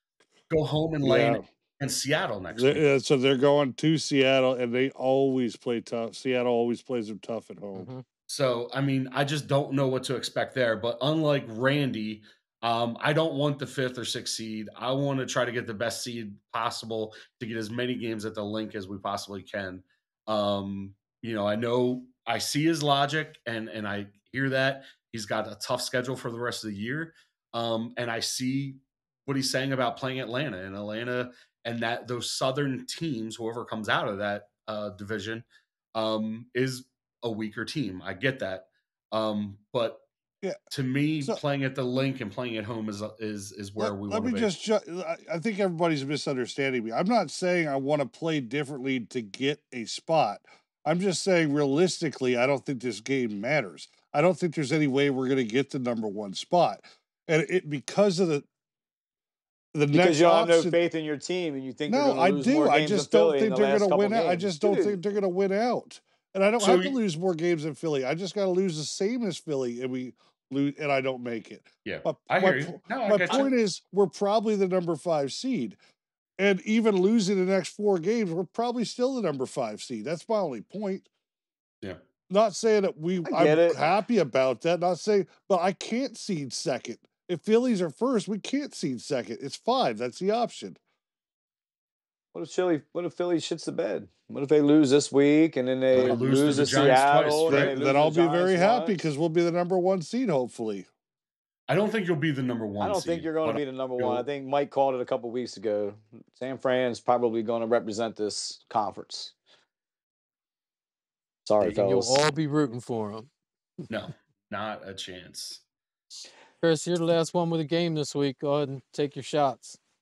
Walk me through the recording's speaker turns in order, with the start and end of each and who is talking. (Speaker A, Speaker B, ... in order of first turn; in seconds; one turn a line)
Speaker A: 0.5-2.9
Speaker B: 1.0-1.4
Speaker B: 2.5-7.9
Speaker C: 7.8-8.0
Speaker A: 8.3-40.0
Speaker A: 40.7-44.5
Speaker B: 43.8-58.5
Speaker B: 59.7-60.8
Speaker D: 59.9-65.0
Speaker B: 61.9-75.8
Speaker A: 66.6-67.0
Speaker A: 71.8-73.5
Speaker B: 76.4-81.1
Speaker B: 82.3-90.8
Speaker D: 83.2-83.8
Speaker D: 92.3-99.0
Speaker A: 95.9-97.7
Speaker B: 97.5-100.9
Speaker A: 101.7-104.2
Speaker D: 102.8-109.3
Speaker D: 111.5-112.2
Speaker C: 111.8-113.3
Speaker A: 113.9-115.6
Speaker C: 116.6-119.8